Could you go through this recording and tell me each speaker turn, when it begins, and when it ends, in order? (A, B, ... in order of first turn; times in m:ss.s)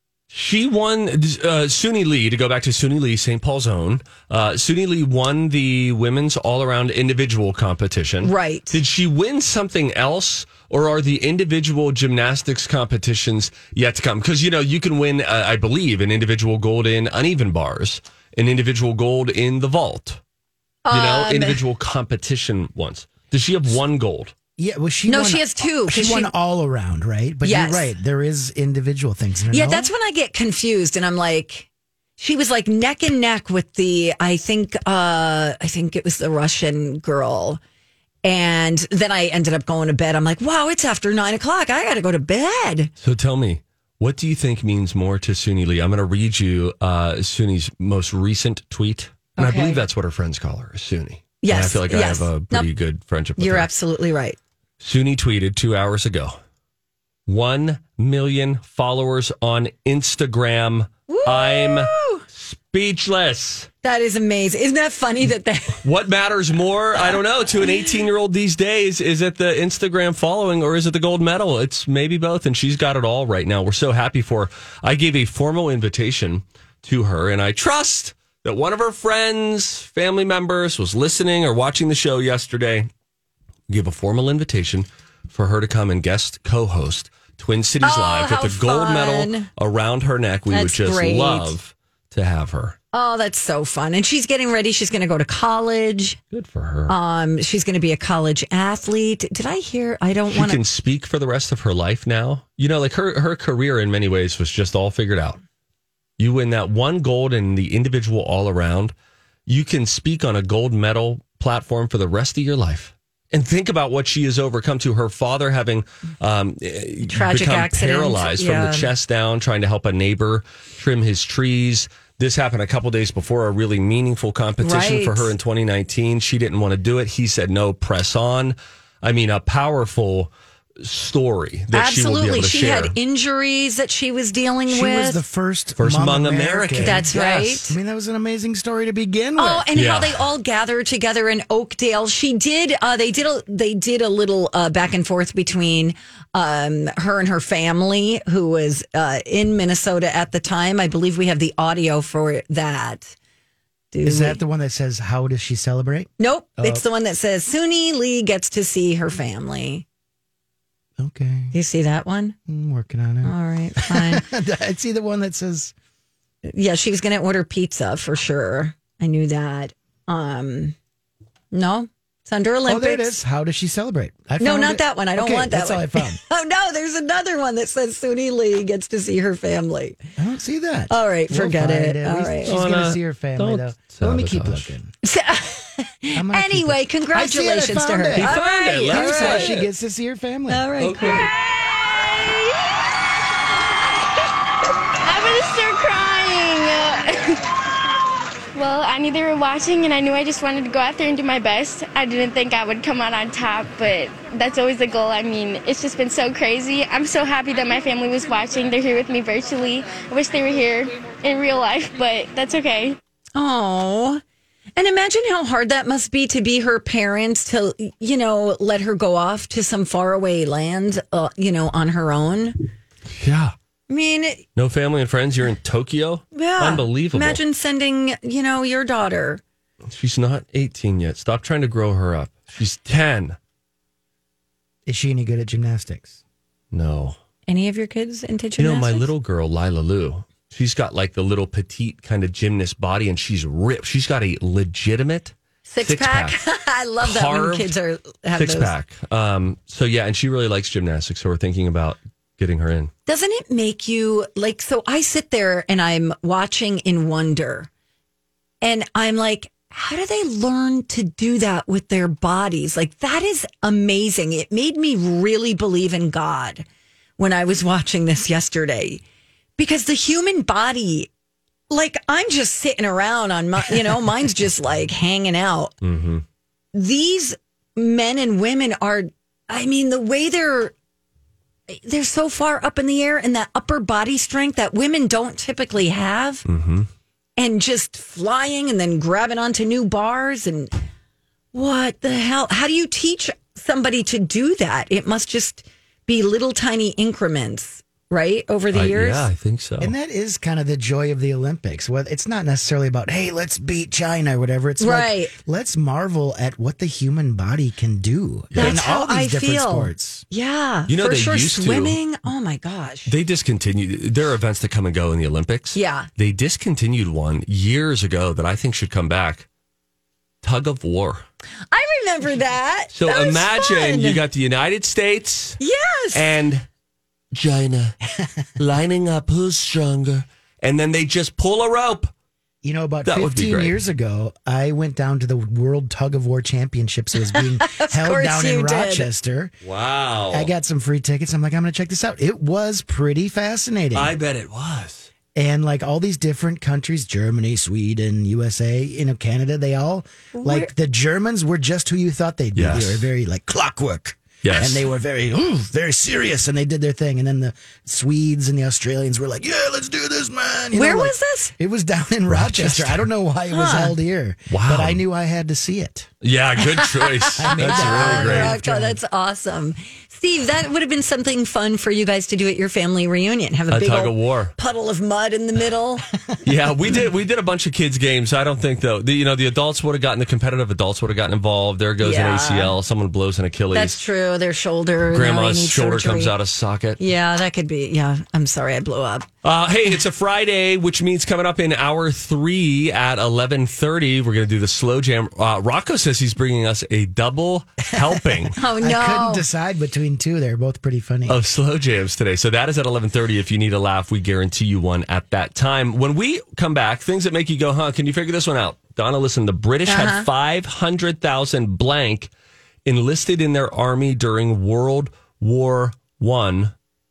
0:00.3-0:20.2 A
0:08.2-0:08.8 B
0:20.8-0:21.6 B
0:20.9-0:24.3 A
0:24.6-0:29.9 C
0:25.1-0:26.3 B
0:27.4-0:27.9 B
0:29.5-0:37.6 B
0:38.2-0:42.9 B
0:43.0-0:53.7 A
0:49.4-0:49.8 B
0:51.4-0:52.7 B
0:53.4-0:54.4 B
0:54.8-0:56.4 A
0:57.3-1:03.7 A
1:01.1-1:02.2 B
1:03.8-1:05.8 B
1:05.8-1:22.9 A
1:23.7-1:32.8 A
1:27.8-1:29.5 B
1:30.5-1:31.5 B
1:32.9-1:36.2 B
1:36.3-1:37.0 A
1:36.9-1:40.6 B
1:40.3-1:45.4 A
1:46.2-1:48.9 A
1:49.5-2:13.0 A
1:57.1-1:58.9 B
2:04.6-2:05.3 B
2:11.7-2:15.2 B
2:14.7-2:19.7 C
2:15.8-2:17.4 A
2:16.8-2:17.8 B
2:19.4-2:33.2 B
2:19.7-2:20.2 A
2:33.9-2:34.4 B
2:34.0-2:36.8 C
2:36.2-2:39.8 B
2:41.0-2:41.5 C
2:41.5-2:42.4 B
2:42.5-2:45.7 C
2:43.2-2:44.2 B
2:46.5-2:50.8 B
2:51.5-2:53.1 B
2:52.7-2:56.2 C
2:54.4-3:00.0 B
3:00.2-3:04.9 C
3:00.9-3:02.6 B
3:02.5-3:04.7 A
3:05.0-3:09.6 B
3:06.2-3:10.7 C
3:08.2-3:09.7 A
3:10.5-3:11.3 B
3:10.8-3:11.3 A
3:15.0-3:17.4 D
3:18.6-3:33.0 D
3:33.4-3:34.2 B
3:34.8-3:42.7 B
3:43.1-3:43.5 A
3:43.9-3:44.4 B
3:44.6-3:47.4 A
3:46.3-3:49.4 B
3:49.9-3:53.4 A
3:54.9-3:56.2 C
3:56.7-3:57.2 A
3:57.5-3:59.1 B
3:58.6-4:06.4 A
4:05.7-4:08.7 B
4:07.0-4:07.7 A
4:08.4-4:12.9 A
4:13.1-4:17.7 B
4:18.6-4:26.7 B
4:27.2-4:29.0 B
4:29.6-4:31.1 B
4:31.7-4:35.8 B
4:35.8-4:36.2 A
4:36.7-4:40.7 B
4:41.7-4:46.5 B
4:46.5-4:46.9 A
4:47.4-4:50.7 B
4:51.5-4:59.3 B
4:58.7-4:59.9 A
4:59.8-5:10.2 C
5:04.8-5:05.3 B
5:08.5-5:08.8 A
5:08.6-5:13.1 B
5:10.9-5:12.0 A
5:13.1-5:19.5 A
5:15.7-5:16.1 B
5:20.4-5:21.2 A
5:21.7-5:24.2 B
5:22.9-5:25.6 A
5:25.6-5:26.3 B
5:26.1-5:26.6 A
5:27.3-5:28.0 A
5:28.6-5:32.1 A
5:32.6-5:39.5 C
5:33.0-5:33.8 A
5:37.3-5:39.1 B
5:39.6-5:40.5 A
5:40.3-5:44.2 C
5:44.0-5:45.1 A
5:45.4-6:06.1 C
5:50.3-5:50.7 B
5:52.6-5:53.1 A
5:54.4-5:54.8 A
6:00.7-6:01.5 B
6:02.3-6:03.0 A
6:03.5-6:04.0 B
6:04.5-6:05.0 A
6:06.2-6:08.6 A
6:06.8-6:16.0 B
6:07.4-6:09.0 C
6:13.7-6:14.5 A
6:16.4-6:24.0 A
6:22.0-6:22.7 B
6:23.7-6:26.3 B
6:25.1-6:27.0 A
6:27.0-6:29.3 B
6:29.4-6:38.6 A
6:38.0-6:41.4 C
6:38.6-6:39.4 B
6:41.3-6:52.3 A
6:49.9-6:50.3 B
6:52.9-6:56.7 A